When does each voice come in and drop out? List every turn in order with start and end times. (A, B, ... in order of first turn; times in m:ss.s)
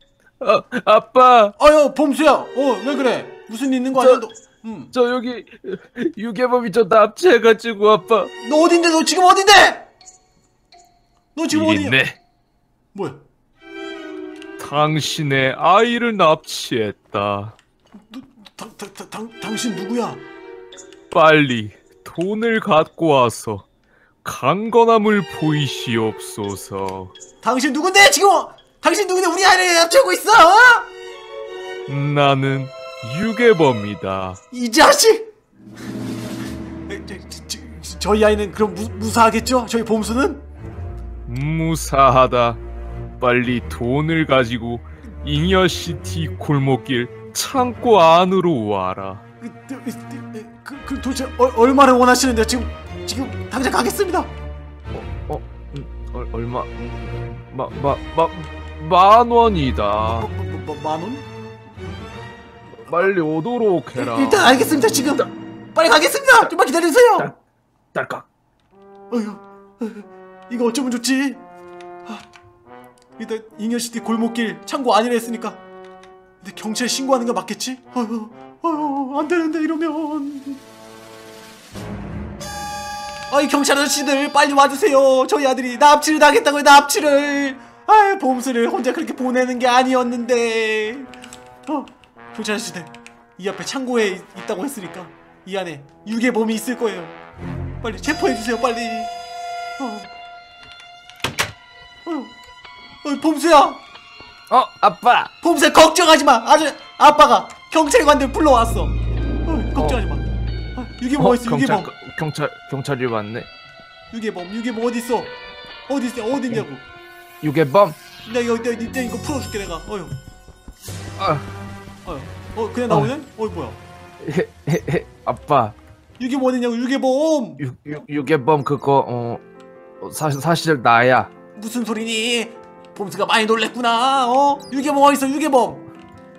0:00.4-0:01.5 A
0:01.6-0:04.9 B
0:04.0-0:04.2 A
0:04.9-0:08.3 A
0:08.4-0:09.9 B
0:11.3-0:12.0 B
0:11.5-0:12.2 A
0:12.9-0:13.2 B
0:14.6-0:17.5 C
0:15.0-0:16.2 A
0:16.9-0:17.4 A
0:18.1-0:20.2 B
0:21.1-0:23.6 C
0:24.2-0:27.1 C
0:27.4-0:30.9 B
0:31.9-0:34.4 C
0:34.5-0:35.3 B
0:36.9-0:40.4 B
0:41.3-0:42.6 C
0:41.3-0:41.6 A
0:43.2-0:49.2 C
0:49.4-0:54.3 B
0:54.9-1:00.3 A
1:00.0-1:01.3 B
1:02.8-1:03.1 B
1:02.8-1:04.5 A
1:03.9-1:07.3 B
1:07.9-1:08.3 A
1:09.1-1:11.4 B
1:13.2-1:15.6 B
1:16.4-1:20.6 B
1:23.3-1:31.1 B
1:31.6-1:37.2 B
1:37.8-1:39.1 B
1:39.8-1:40.1 B
1:42.0-1:42.3 B
1:43.0-1:43.8 B
1:44.5-1:45.3 A
1:45.4-1:51.9 B
1:51.2-1:53.5 A
1:54.1-1:55.4 B
1:55.9-1:56.8 B
1:57.4-1:58.0 A
1:58.2-2:00.2 B
2:01.2-2:01.4 A
2:02.0-2:03.8 B
2:04.2-2:05.7 A
2:06.2-2:07.6 B
2:07.6-2:09.4 A
2:10.0-2:11.3 A
2:11.5-2:15.9 B